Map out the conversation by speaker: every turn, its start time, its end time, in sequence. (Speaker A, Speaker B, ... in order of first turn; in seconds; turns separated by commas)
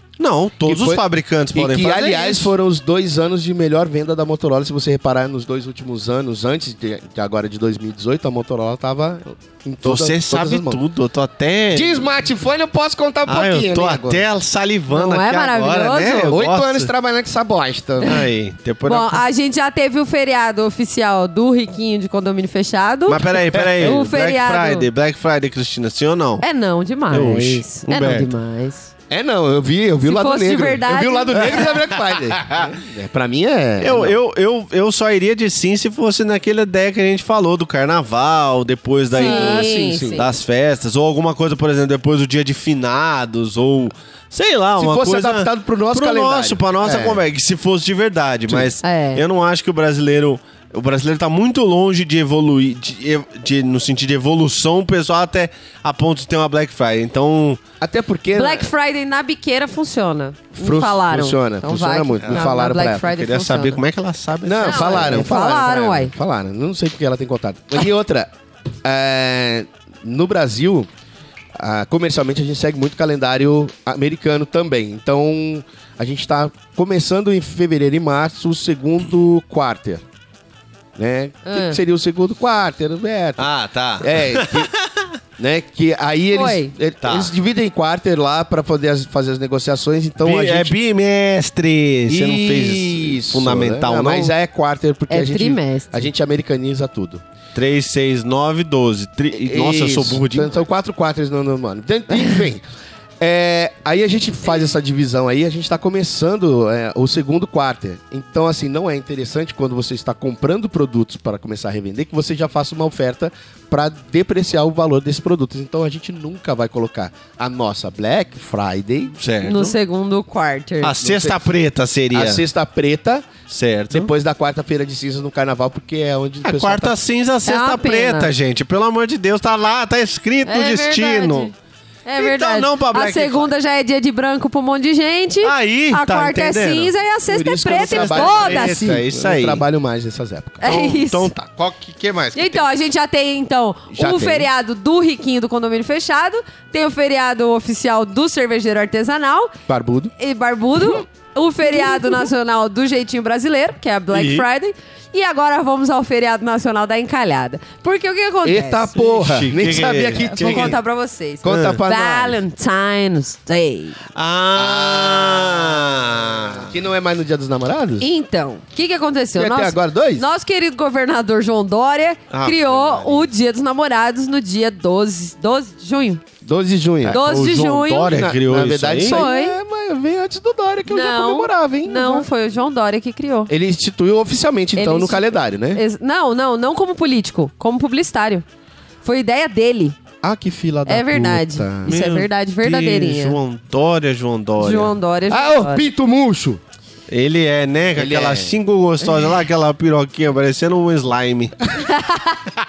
Speaker A: 0.2-2.5, Speaker B: 0.7-1.0, Speaker B: 1.5-10.8, Speaker A: 9.8-12.1, Speaker B: 11.7-14.2, Speaker A: 13.2-16.9, Speaker C: 14.9-16.4, Speaker B: 16.3-18.2, Speaker A: 18.0-19.2, Speaker C: 18.8-24.9, Speaker A: 23.1-26.4, Speaker B: 23.5-24.0, Speaker C: 26.4-28.9, Speaker A: 27.1-28.3, Speaker B: 29.1-34.2, Speaker C: 30.0-31.8, Speaker A: 31.5-32.6, Speaker A: 33.8-57.6, Speaker C: 39.1-40.3, Speaker B: 39.1-40.2, Speaker B: 44.8-47.2, Speaker C: 48.8-49.2, Speaker B: 57.8-58.7, Speaker C: 58.3-63.8, Speaker B: 60.5-63.1, Speaker A: 62.2-65.3, Speaker B: 64.4-68.3, Speaker C: 64.6-66.1, Speaker B: 68.8-70.9, Speaker B: 71.6-80.0, Speaker B: 81.0-83.5, Speaker C: 81.5-81.8, Speaker A: 83.4-85.1, Speaker B: 84.0-84.7, Speaker B: 85.4-90.7, Speaker C: 86.3-86.7, Speaker A: 87.0-87.3, Speaker A: 90.2-94.3, Speaker B: 92.1-97.2, Speaker C: 95.1-96.0, Speaker A: 97.5-100.5, Speaker B: 99.3-102.6, Speaker B: 103.2-119.2, Speaker A: 119.2-119.8, Speaker C: 119.4-121.0, Speaker A: 120.8-122.4, Speaker B: 121.0-121.5, Speaker B: 122.1-123.3, Speaker A: 123.5-124.1, Speaker B: 123.9-126.9, Speaker A: 126.4-131.5, Speaker C: 127.4-128.3, Speaker C: 130.4-131.5, Speaker C: 132.0-139.0, Speaker A: 132.2-133.5, Speaker A: 135.4-136.9, Speaker B: 137.3-140.7, Speaker A: 137.7-139.6, Speaker C: 140.6-141.3, Speaker A: 140.6-142.7, Speaker C: 142.3-149.5, Speaker B: 143.9-144.5, Speaker B: 149.7-150.1, Speaker C: 150.2-158.9, Speaker B: 151.7-152.2, Speaker A: 154.1-154.4, Speaker B: 158.4-160.8, Speaker A: 158.9-160.8, Speaker C: 160.2-164.0, Speaker B: 161.4-162.4, Speaker A: 161.5-161.8, Speaker A: 164.1-166.7, Speaker B: 164.6-165.9, Speaker B: 166.5-168.1, Speaker C: 168.0-176.2, Speaker B: 169.3-170.2, Speaker A: 172.3-172.8, Speaker B: 172.7-173.2, Speaker B: 176.4-177.2, Speaker A: 177.0-179.2, Speaker C: 177.1-178.2, Speaker B: 178.1-182.2, Speaker C: 179.0-179.6, Speaker C: 180.8-183.5, Speaker B: 183.5-185.8, Speaker C: 184.8-188.4, Speaker C: 189.0-190.0, Speaker B: 190.2-191.9, Speaker C: 190.9-193.4, Speaker A: 191.8-194.9, Speaker C: 194.6-195.9, Speaker B: 195.3-196.6, Speaker A: 197.1-201.5, Speaker B: 197.9-198.6, Speaker C: 201.8-202.4